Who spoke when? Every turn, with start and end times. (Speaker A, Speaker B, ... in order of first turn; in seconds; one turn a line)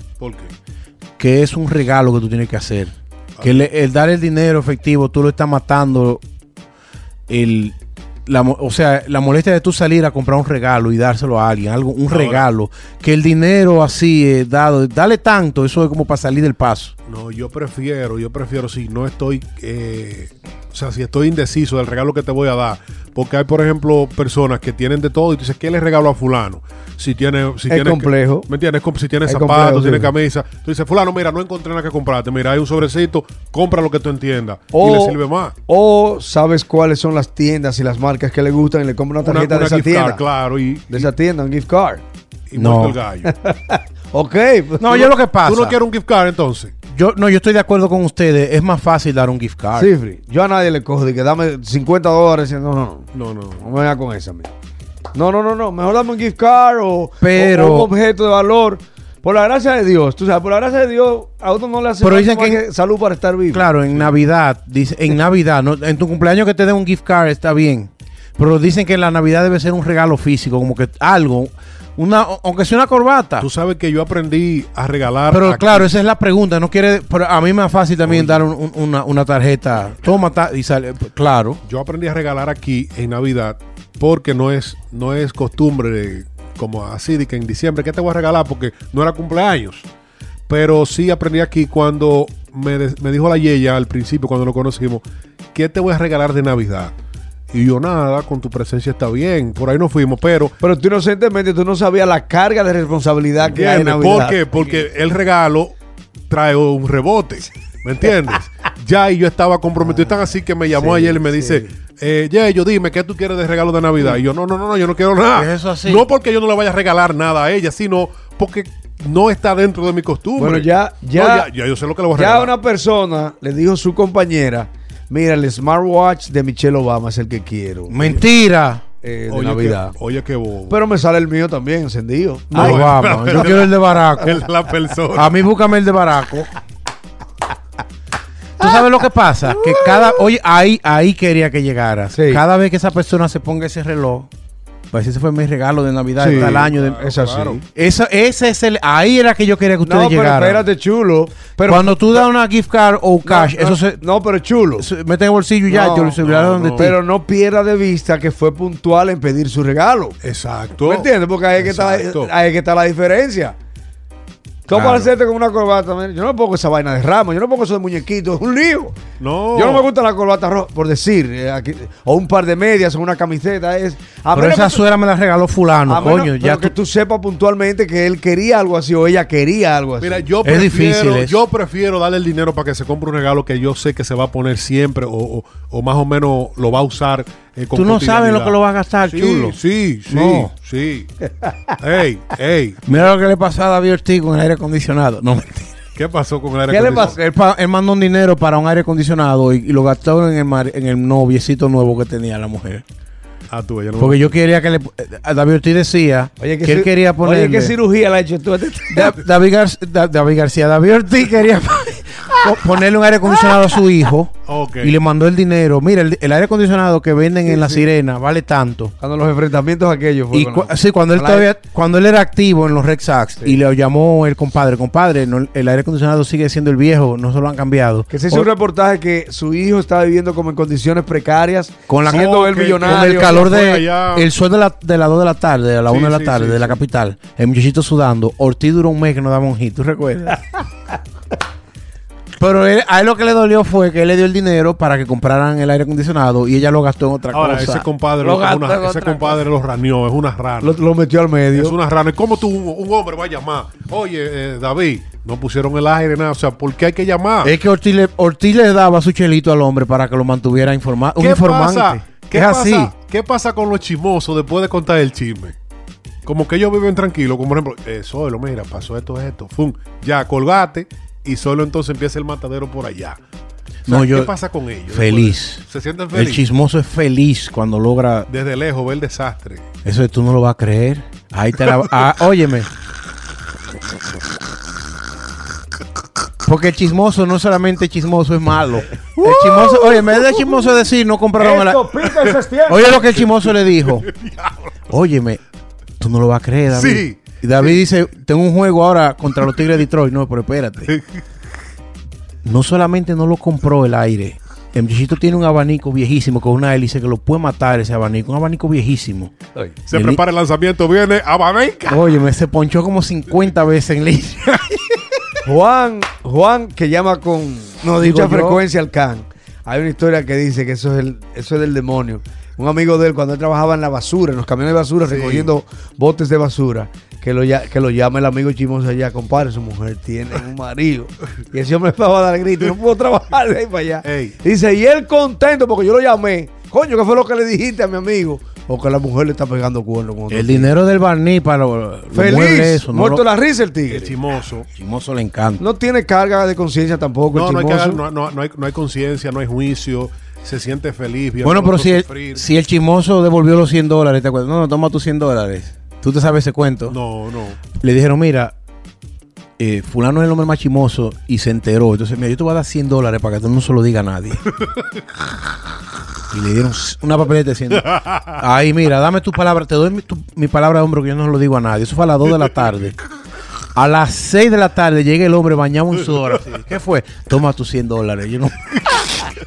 Speaker A: 0.2-0.5
Speaker B: 1.2-6.2
Speaker B: 7.3-16.9
Speaker A: 12.1-12.5
Speaker A: 17.1-35.5
Speaker C: 27.7-28.5
Speaker C: 29.2-30.1
Speaker C: 34.7-40.2
Speaker A: 39.2-41.1
Speaker C: 40.9-42.0
Speaker A: 42.5-43.3
Speaker B: 42.5-43.0
Speaker C: 43.2-45.0
Speaker B: 44.8-45.8
Speaker A: 44.9-46.7
Speaker B: 46.9-49.9
Speaker C: 49.8-53.1
Speaker A: 53.1-53.6
Speaker C: 53.6-54.5
Speaker C: 55.1-63.7
Speaker B: 57.2-57.9
Speaker B: 62.0-62.6
Speaker B: 63.5-73.5
Speaker A: 73.4-75.9
Speaker B: 75.3-81.6
Speaker A: 78.0-78.4
Speaker A: 81.7-89.9
Speaker A: 90.5-96.9
Speaker A: 97.5-100.5
Speaker C: 100.6-104.5
Speaker B: 103.4-104.0
Speaker A: 103.9-105.7
Speaker A: 106.3-122.5
Speaker C: 110.7-111.7
Speaker B: 115.3-116.1
Speaker C: 120.4-121.5
Speaker C: 122.2-128.2
Speaker B: 127.9-128.8
Speaker C: 129.0-129.9
Speaker A: 129.3-130.8
Speaker C: 130.7-133.4
Speaker A: 132.5-135.3
Speaker B: 132.5-134.4
Speaker B: 135.1-136.5
Speaker B: 138.6-144.3
Speaker C: 139.6-139.9
Speaker C: 142.1-142.4
Speaker B: 144.9-147.0
Speaker C: 146.2-147.6
Speaker A: 146.3-147.6
Speaker B: 147.7-150.7
Speaker C: 149.8-152.2
Speaker B: 151.7-154.0
Speaker C: 153.2-154.9
Speaker B: 154.8-157.0
Speaker C: 155.7-156.2
Speaker A: 156.2-156.9
Speaker C: 156.8-160.2
Speaker A: 160.2-162.3
Speaker C: 160.8-163.5
Speaker C: 164.7-169.0
Speaker B: 164.7-165.1
Speaker A: 169.2-169.9
Speaker C: 169.5-174.8
Speaker B: 174.3-176.7
Speaker C: 175.9-180.3
Speaker A: 180.0-191.1
Speaker B: 180.4-181.3
Speaker B: 187.7-189.6
Speaker B: 190.1-190.5
Speaker A: 191.8-192.8
Speaker B: 192.8-195.7
Speaker A: 195.9-197.2
Speaker C: 196.7-197.2
Speaker B: 196.9-202.8
Speaker A: 203.5-204.3
Speaker B: 204.0-207.7
Speaker C: 206.4-209.2
Speaker B: 208.9-218.9
Speaker A: 214.5-214.9
Speaker C: 217.4-217.9
Speaker C: 219.0-221.5
Speaker B: 220.3-228.5
Speaker C: 228.1-233.5
Speaker B: 231.9-240.4
Speaker A: 232.1-234.3
Speaker A: 235.8-236.8
Speaker B: 242.4-247.8
Speaker A: 247.3-250.8
Speaker C: 248.2-249.3
Speaker C: 250.6-251.8
Speaker A: 251.5-257.6
Speaker B: 257.4-262.9
Speaker A: 261.2-265.5
Speaker A: 266.2-273.2
Speaker B: 273.9-274.3
Speaker A: 273.9-276.4
Speaker B: 274.9-278.3
Speaker A: 278.3-279.6
Speaker B: 279.8-282.7
Speaker B: 286.4-291.9
Speaker C: 289.2-289.7
Speaker C: 291.4-293.1
Speaker B: 292.6-294.1
Speaker A: 293.0-294.7
Speaker B: 294.9-295.4
Speaker B: 296.0-300.9
Speaker A: 296.7-297.8
Speaker B: 302.4-309.3
Speaker A: 309.9-312.0
Speaker B: 309.9-310.2
Speaker B: 311.9-315.0
Speaker C: 315.4-340.7
Speaker B: 317.8-318.6
Speaker A: 325.0-325.5
Speaker A: 334.0-334.4
Speaker B: 340.3-343.2
Speaker C: 342.1-344.2
Speaker A: 343.9-344.7
Speaker B: 344.7-345.6
Speaker C: 345.6-348.0
Speaker A: 347.3-352.4
Speaker B: 351.4-356.9
Speaker A: 356.9-357.6
Speaker B: 357.8-358.5
Speaker B: 359.6-364.4
Speaker B: 366.3-372.9
Speaker B: 373.7-379.2